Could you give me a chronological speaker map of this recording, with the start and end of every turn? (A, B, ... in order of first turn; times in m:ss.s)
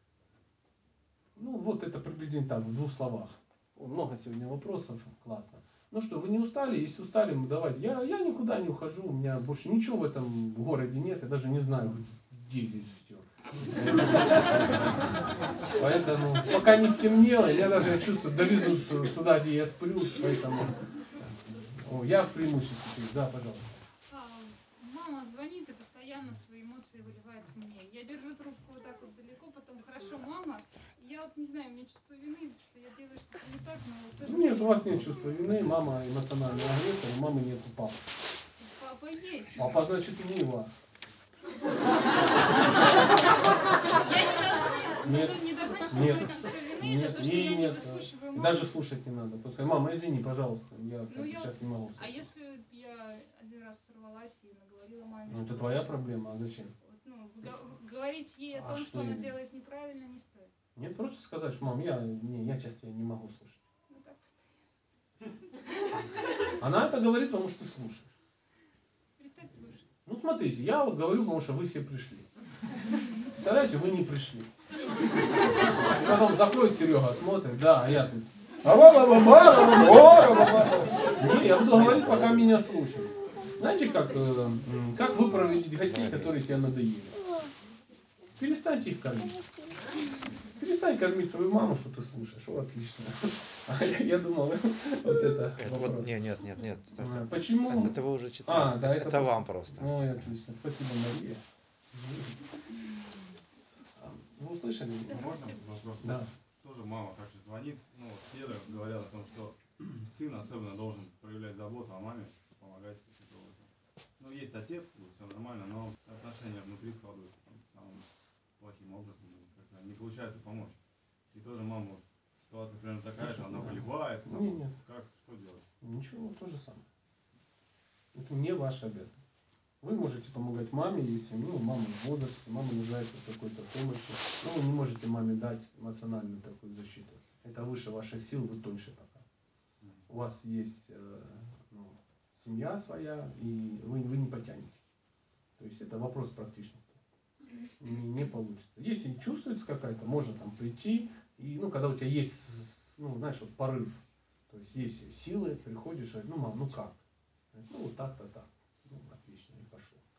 0:01.4-0:23.9 A
0:24.1-0:35.2 B
0:34.2-0:38.1 A
0:38.6-0:39.8 B
0:39.5-0:40.7 A
0:42.8-0:48.7 B
0:45.0-0:52.3 A
0:51.1-0:55.9 B
0:55.3-0:56.7 A
0:56.8-1:00.5 B
0:58.5-0:59.4 A
1:00.8-1:03.6 A
1:03.9-1:04.6 B
1:06.6-1:08.1 A
1:09.2-1:09.9 B
1:10.0-1:12.3 A
1:13.4-1:14.5 A
1:15.6-1:27.2 A
1:20.0-1:20.8 C
1:21.7-1:22.5 C
1:25.8-1:26.7 C
1:28.4-1:29.4 A
1:30.6-1:36.2 A
1:35.6-1:40.0 C
1:37.0-1:41.4 A
1:42.0-1:42.4 A
1:44.0-1:45.4 A
1:45.1-1:58.0 D
1:46.0-1:46.3 A
1:58.6-2:00.8 D
2:01.3-2:05.6 D
2:03.2-2:04.7 A
2:05.8-2:06.8 A
2:08.2-2:09.2 A
2:09.8-2:19.2 A
2:20.1-2:24.8 A
2:25.6-2:27.0 A
2:27.8-2:37.0 A
2:37.5-2:40.0 A